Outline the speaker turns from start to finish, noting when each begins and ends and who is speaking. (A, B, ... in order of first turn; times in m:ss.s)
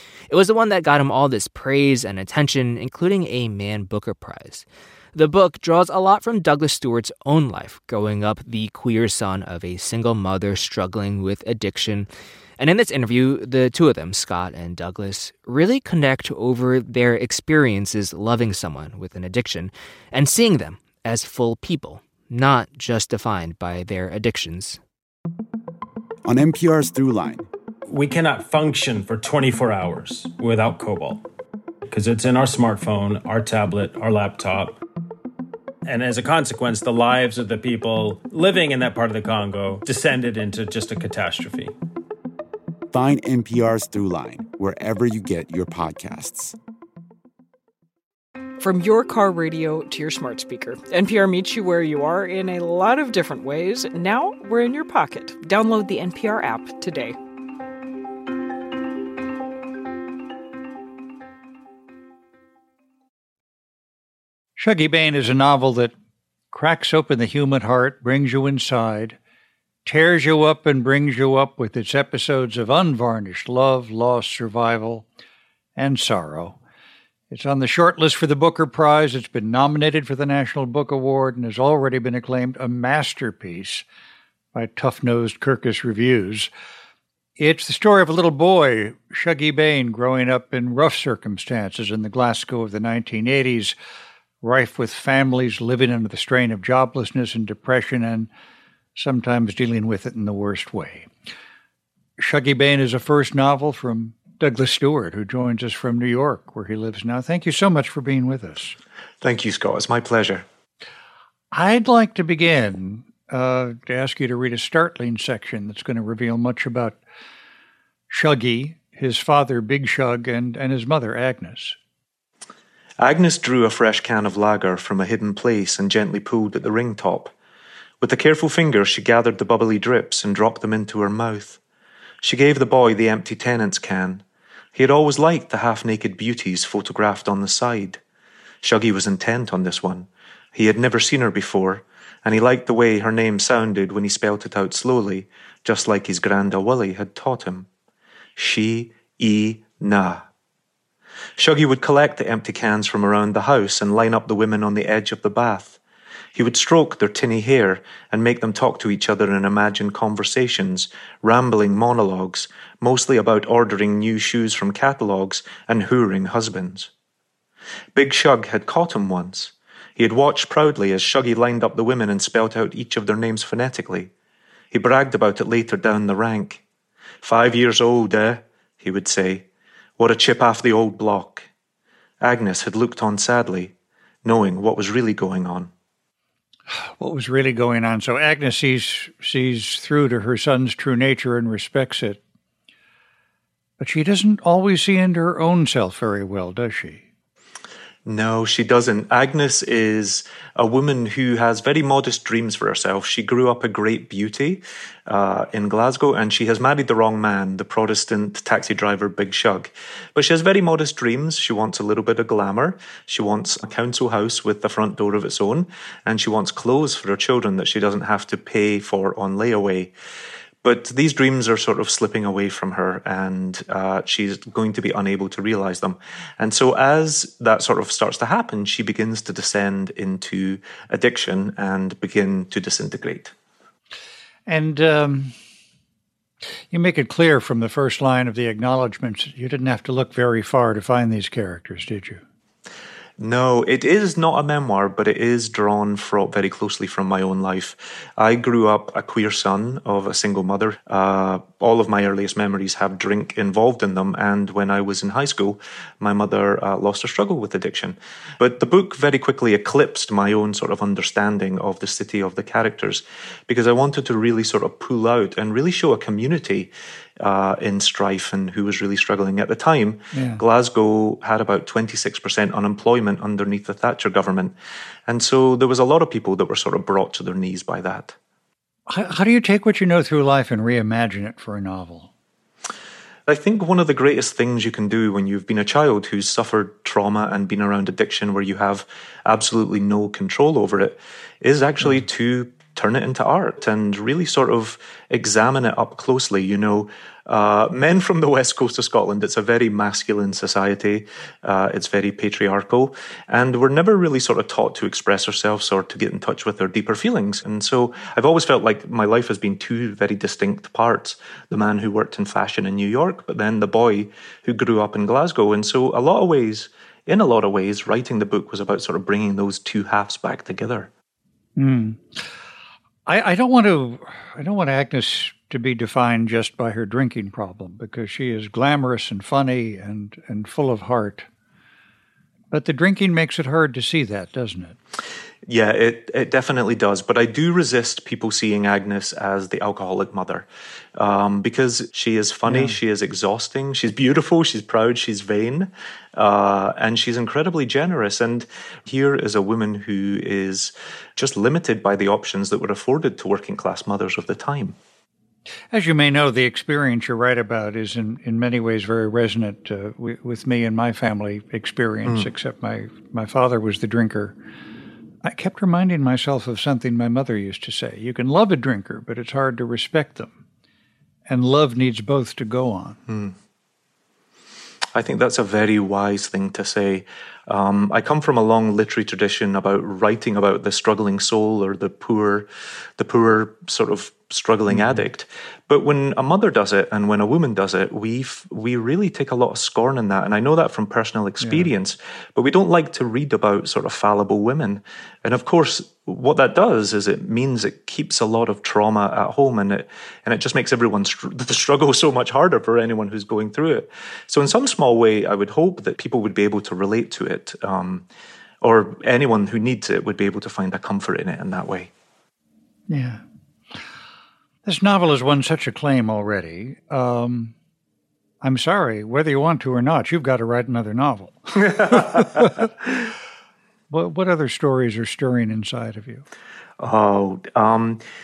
0:00.3-0:24.8 A
0:26.2-0:27.5 B
0:27.9-0:31.2 C
0:31.9-0:34.8 C
0:35.8-0:41.7 C
0:42.9-0:46.6 B
0:48.6-0:57.2 D
1:04.6-1:05.9 E
1:06.5-1:09.2 E
1:09.8-1:15.0 E
1:15.8-1:16.6 E
1:17.3-1:23.8 E
1:24.5-1:26.5 E
1:27.4-1:33.8 E
1:34.4-1:38.3 E
1:39.0-1:41.1 E
1:42.2-1:48.7 E
1:49.2-1:50.4 F
1:51.5-1:57.0 E
1:58.1-2:01.8 E
2:03.0-2:07.3 F
2:08.0-2:11.6 F
2:12.2-2:14.2 F
2:14.7-2:18.0 F
2:18.6-2:27.7 F
2:28.4-2:30.2 F
2:31.4-2:35.8 F
2:36.3-2:46.9 F
2:47.9-2:54.1 F
2:54.7-2:56.6 F
2:57.2-2:59.5 F
3:00.0-3:01.5 F
3:02.2-3:03.7 F
3:04.2-3:05.7 F
3:07.0-3:12.2 E
3:13.8-3:17.0 E
3:18.0-3:39.9 F
3:40.6-3:53.3 F
3:54.5-3:55.3 E
3:56.7-4:02.2 E
4:03.2-4:34.5 F
4:30.1-4:30.4 E
4:35.1-4:38.2 F
4:38.9-4:42.1 E
4:43.3-5:20.9 F
5:21.6-5:22.2 E
5:23.1-5:31.2 E
5:32.5-5:34.8 E
5:35.4-5:54.8 F
5:42.5-5:42.8 E
5:55.7-6:04.4 E
6:02.0-6:02.3 F
6:05.2-6:10.3 E
6:11.3-6:13.0 E
6:13.1-6:13.3 F
6:14.9-6:48.0 F
6:24.7-6:25.0 E
6:31.4-6:31.7 E
6:48.6-6:51.9 F
6:52.9-6:53.2 E
6:54.6-6:57.5 E
6:58.4-7:02.7 E
7:03.9-7:06.2 E
7:06.8-7:08.0 F